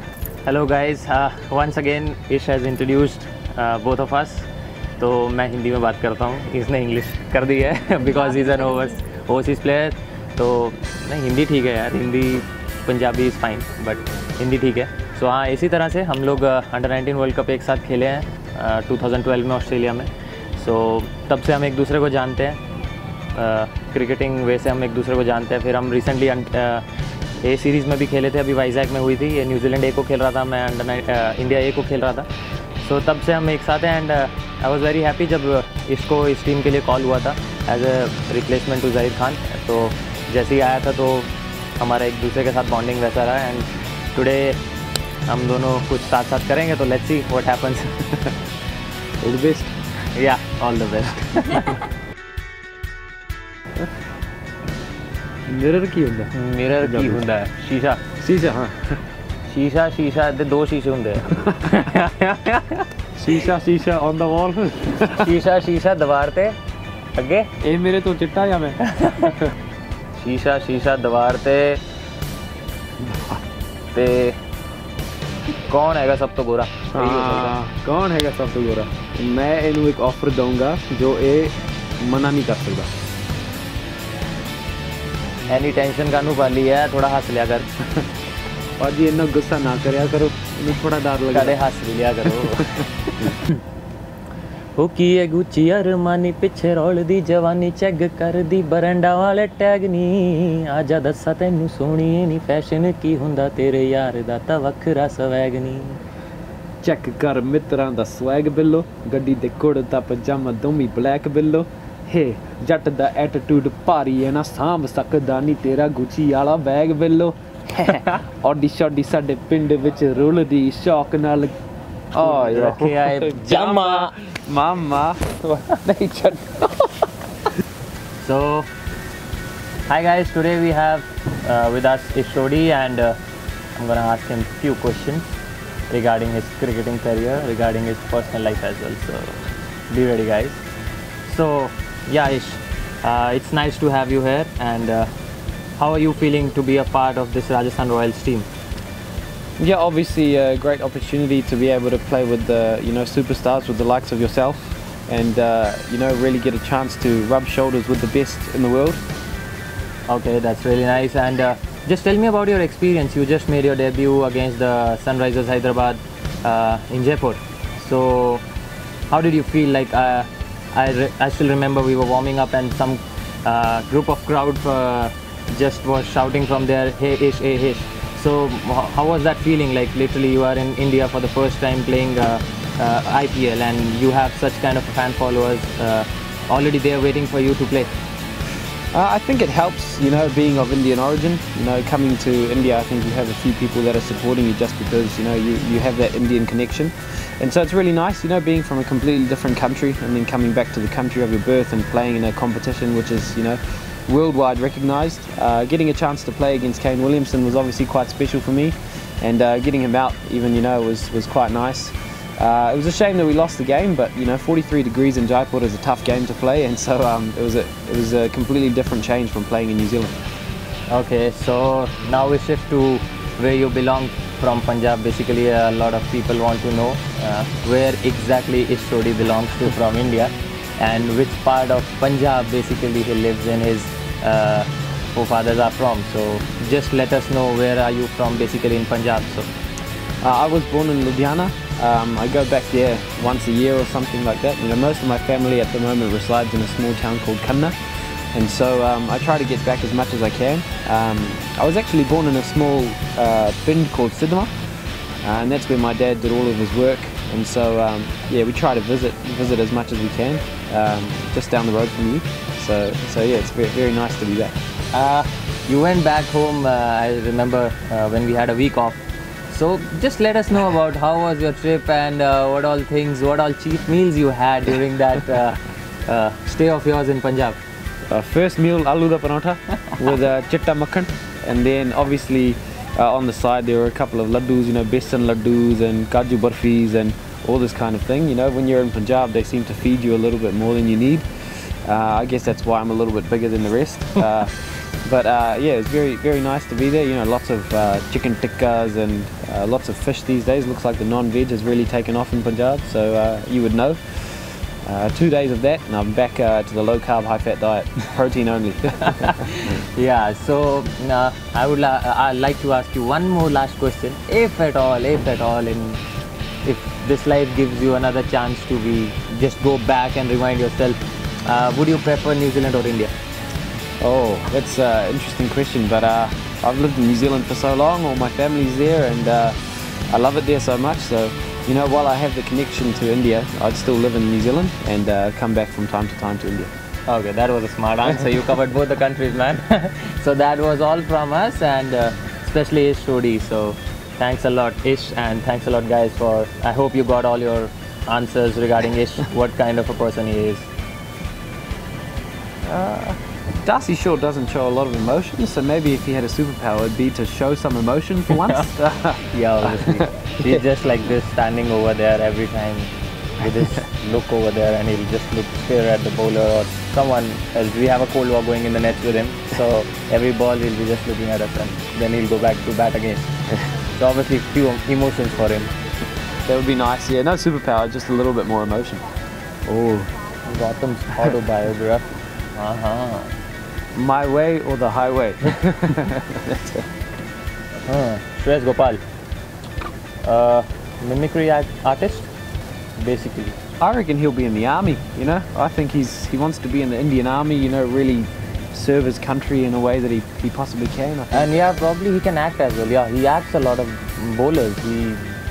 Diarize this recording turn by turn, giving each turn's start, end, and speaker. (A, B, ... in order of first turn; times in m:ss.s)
0:00.4-0:04.5 A
0:05.0-0:22.6 A
0:23.3-0:26.9 A
0:27.4-0:32.3 A
0:32.8-0:44.6 A
0:45.3-0:48.1 A
0:49.2-0:49.7 B
0:50.1-0:51.8 A
0:55.5-0:56.3 B
0:56.3-0:58.0 A
0:56.8-0:57.2 B
0:58.2-0:59.0 B
0:59.5-1:02.8 A
1:03.2-1:05.3 B
1:05.1-1:06.6 A
1:07.2-1:07.5 A
1:07.6-1:08.8 B
1:08.8-1:09.4 A
1:10.2-1:11.8 A
1:13.0-1:13.4 B
1:13.9-1:14.4 A
1:15.7-1:17.6 A
1:16.9-1:22.9 B
1:25.5-1:27.7 A
1:28.8-1:31.6 B
1:31.3-1:33.6 A
1:34.8-1:46.0 A
1:46.8-2:01.5 B
1:57.8-1:58.2 A
2:02.1-2:06.9 B
2:02.2-2:04.1 A
2:08.2-2:08.7 A
2:09.9-2:13.2 A
2:13.8-2:15.2 A
2:15.9-2:20.6 A
2:21.2-2:25.1 A
2:25.8-2:28.5 A
2:29.6-2:39.0 B
2:40.1-2:48.4 A
2:49.1-3:07.9 A
3:08.9-3:40.1 B
3:40.9-3:59.5 A
4:00.2-4:14.5 B
4:15.2-4:24.6 B
4:24.9-4:29.0 A
4:29.5-4:37.6 A
4:38.1-5:09.4 B
5:09.0-5:16.0 A
5:16.6-5:23.1 A
5:24.0-5:36.7 B
5:37.1-5:50.7 A
5:52.6-6:00.6 B
5:58.4-5:58.6 A
5:59.2-6:02.9 A
6:03.4-6:13.3 A
6:14.0-6:15.7 A
6:16.4-6:19.0 B
6:19.7-6:20.1 B
6:20.5-6:23.3 A
6:23.9-6:26.8 B
6:27.9-6:29.0 A
6:30.2-6:32.3 A
6:33.0-6:33.6 A
6:33.8-6:41.5 B
6:41.3-6:45.3 A